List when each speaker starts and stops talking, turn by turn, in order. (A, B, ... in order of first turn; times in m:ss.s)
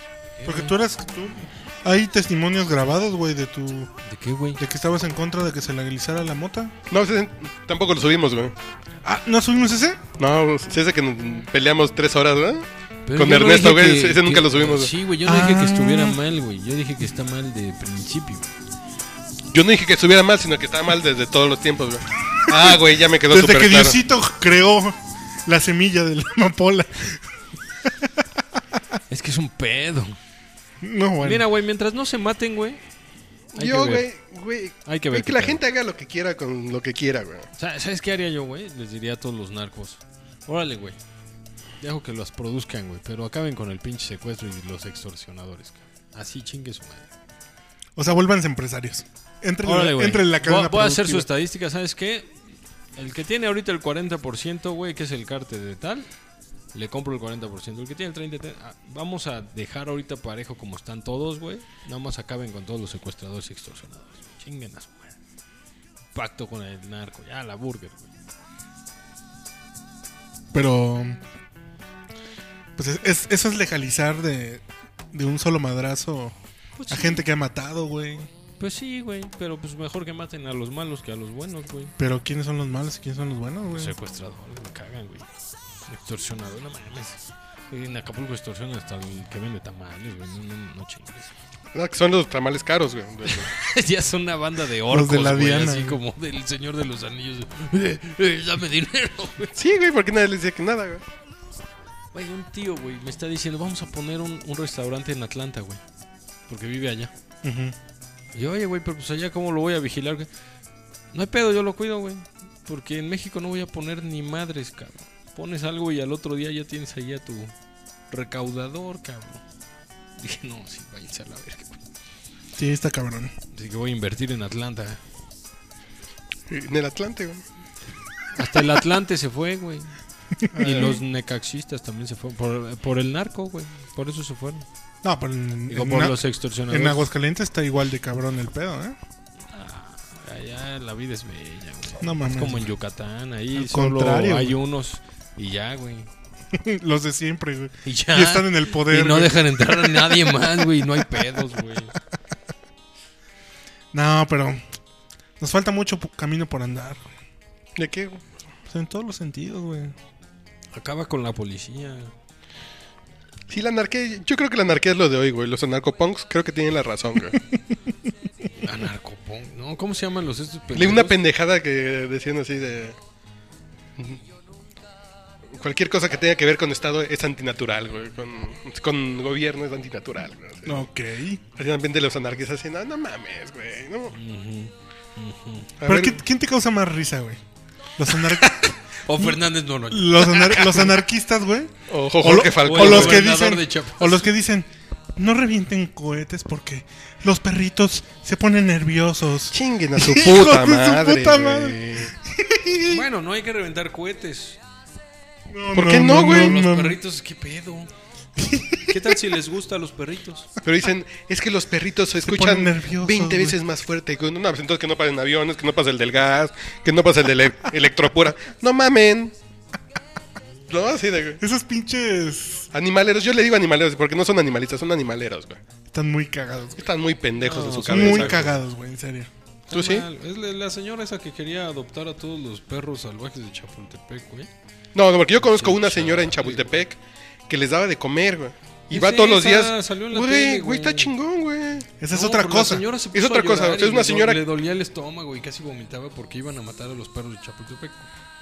0:00.4-0:00.8 A
0:00.4-0:03.9 B
0:04.0-0:04.6 A
0:04.6-0:06.7 B
0:06.9-0:08.5 C
0:09.0-0:10.0 B
0:10.2-0:14.9 C
0:13.1-0:18.5 A
0:15.2-0:16.2 B
0:19.5-0:24.0 C
0:22.5-0:27.2 B
0:27.8-0:28.1 B
0:29.1-0:30.2 A
0:30.8-0:31.4 B
0:31.2-0:32.8 A
0:33.6-0:37.5 C
0:33.6-0:34.1 A
0:34.9-0:35.6 A
0:37.6-0:41.0 A
0:41.8-0:47.1 A
0:48.0-0:51.3 B
0:49.6-0:52.4 A
0:53.0-0:56.1 A
0:56.7-1:05.2 A
1:06.1-1:08.1 A
1:10.5-1:11.2 B
1:12.8-1:16.4 B
1:16.8-1:17.2 A
1:16.9-1:18.3 B
1:18.6-1:21.9 A
1:22.0-1:23.9 B
1:23.8-1:25.3 A
1:25.9-1:31.3 A
1:31.7-1:33.5 C
1:33.3-1:39.6 A
1:34.9-1:36.0 B
1:39.6-1:41.0 C
1:42.1-1:45.8 A
1:46.5-1:47.1 A
1:47.4-1:47.8 B
1:48.3-1:50.3 A
1:51.1-1:57.5 A
1:58.1-1:59.4 A
2:00.2-2:01.8 A
2:02.6-2:03.3 B
2:03.5-2:05.0 A
2:06.5-2:07.4 C
2:08.3-2:09.9 A
2:10.4-2:11.0 B
2:10.6-2:14.7 A
2:15.0-2:19.0 B
2:15.7-2:17.1 A
2:19.5-2:26.1 A
2:22.0-2:22.7 B
2:23.5-2:24.6 B
2:26.5-2:30.4 B
2:27.8-2:31.9 A
2:33.9-2:34.6 B
2:35.4-2:37.0 B
2:37.8-2:38.2 C
2:38.7-2:40.0 B
2:40.7-2:42.1 A
2:43.5-2:47.4 C
2:48.6-2:51.2 A
2:50.8-2:53.0 C
2:55.6-3:00.8 C
3:00.7-3:01.4 B
3:01.6-3:04.1 C
3:04.1-3:05.7 A
3:05.8-3:06.2 C
3:05.9-3:07.4 B
3:08.0-3:23.0 B
3:08.5-3:10.9 A
3:11.9-3:13.3 C
3:12.3-3:14.3 A
3:19.5-3:22.1 C
3:22.9-3:24.6 A
3:25.5-3:27.0 B
3:25.7-3:26.6 C
3:26.1-3:27.9 A
3:28.4-3:29.1 B
3:28.9-3:30.5 A
3:30.6-3:39.3 C
3:32.2-3:33.6 B
3:40.7-3:41.4 C
3:41.4-3:42.7 B
3:42.7-3:45.6 C
3:45.9-3:46.9 B
3:46.8-3:48.5 C
3:47.4-3:48.6 A
3:47.9-3:49.3 B
3:49.7-3:54.5 A
3:49.7-3:50.1 C
3:54.9-4:01.9 C
3:55.4-3:56.7 A
3:58.9-4:01.1 A
4:02.0-4:02.9 B
4:02.1-4:08.1 A
4:03.1-4:04.4 C